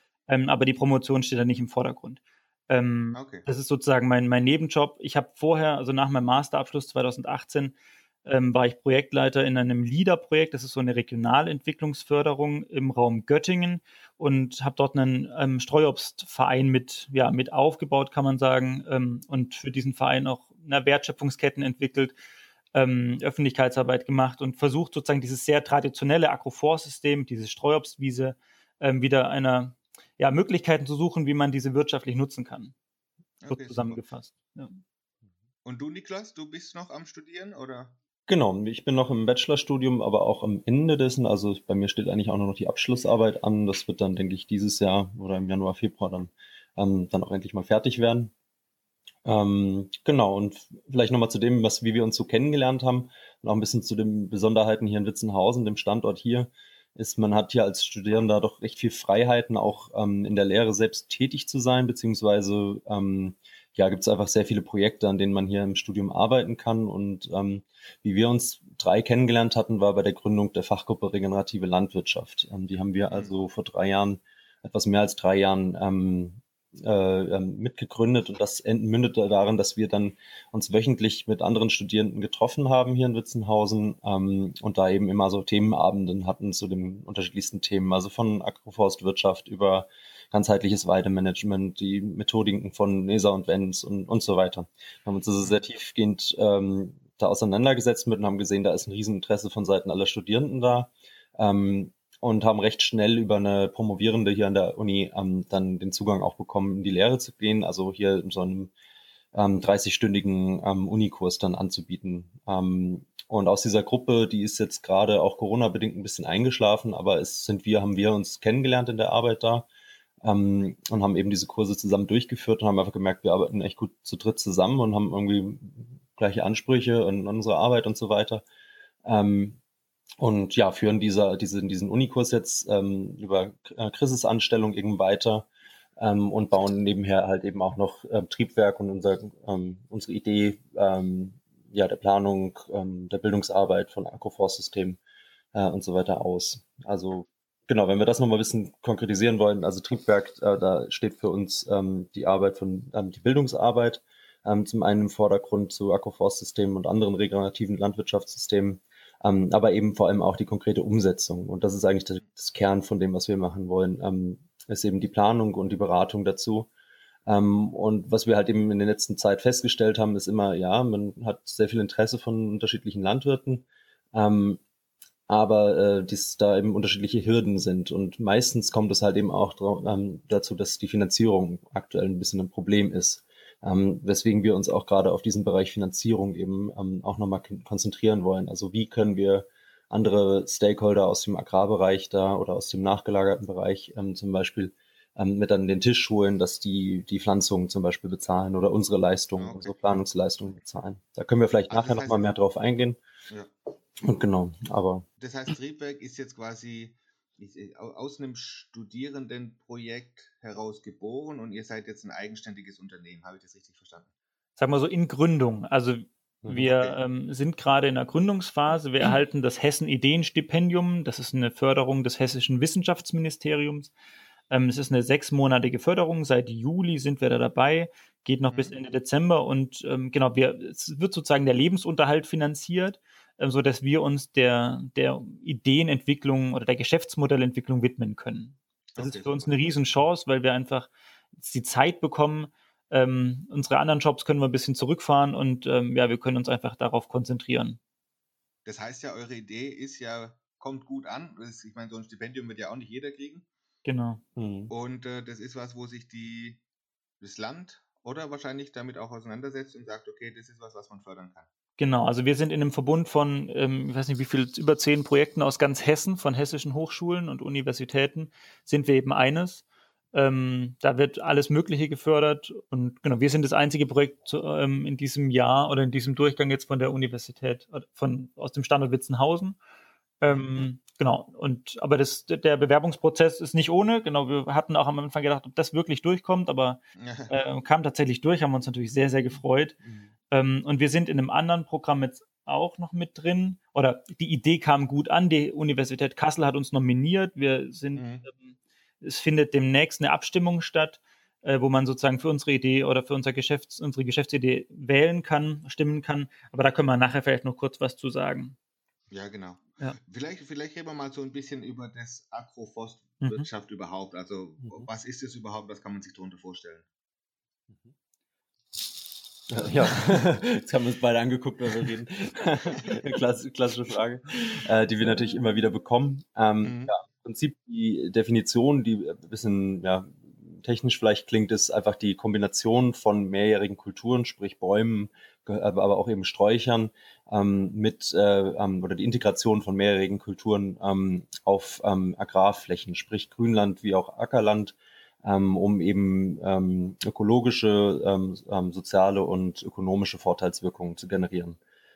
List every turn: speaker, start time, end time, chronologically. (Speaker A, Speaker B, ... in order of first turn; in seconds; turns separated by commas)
Speaker A: 0.3-22.2, Speaker B: 3.1-3.5, Speaker A: 22.7-32.7, Speaker B: 33.4-34.0, Speaker A: 33.5-34.8, Speaker B: 35.6-37.9, Speaker C: 38.3-48.3, Speaker C: 49.2-108.7, Speaker C: 109.3-119.7, Speaker C: 120.2-128.4, Speaker C: 129.1-129.6, Speaker C: 130.2-135.5, Speaker C: 136.0-145.0, Speaker C: 145.5-166.7, Speaker C: 167.3-174.6, Speaker C: 175.3-203.0, Speaker B: 199.4-199.8, Speaker B: 201.7-202.3, Speaker C: 204.0-205.1, Speaker B: 205.2-214.1, Speaker A: 214.6-223.9, Speaker B: 216.6-217.0, Speaker A: 224.5-247.8, Speaker B: 228.5-228.8, Speaker B: 238.9-239.5, Speaker B: 248.7-253.4, Speaker A: 253.8-254.2, Speaker C: 254.4-254.7, Speaker B: 254.7-256.6, Speaker B: 257.2-261.5, Speaker A: 261.8-279.6, Speaker A: 280.2-289.8, Speaker B: 287.0-287.4, Speaker A: 290.3-308.6, Speaker B: 298.0-298.3, Speaker B: 309.1-316.9, Speaker C: 319.5-351.6, Speaker B: 326.6-326.9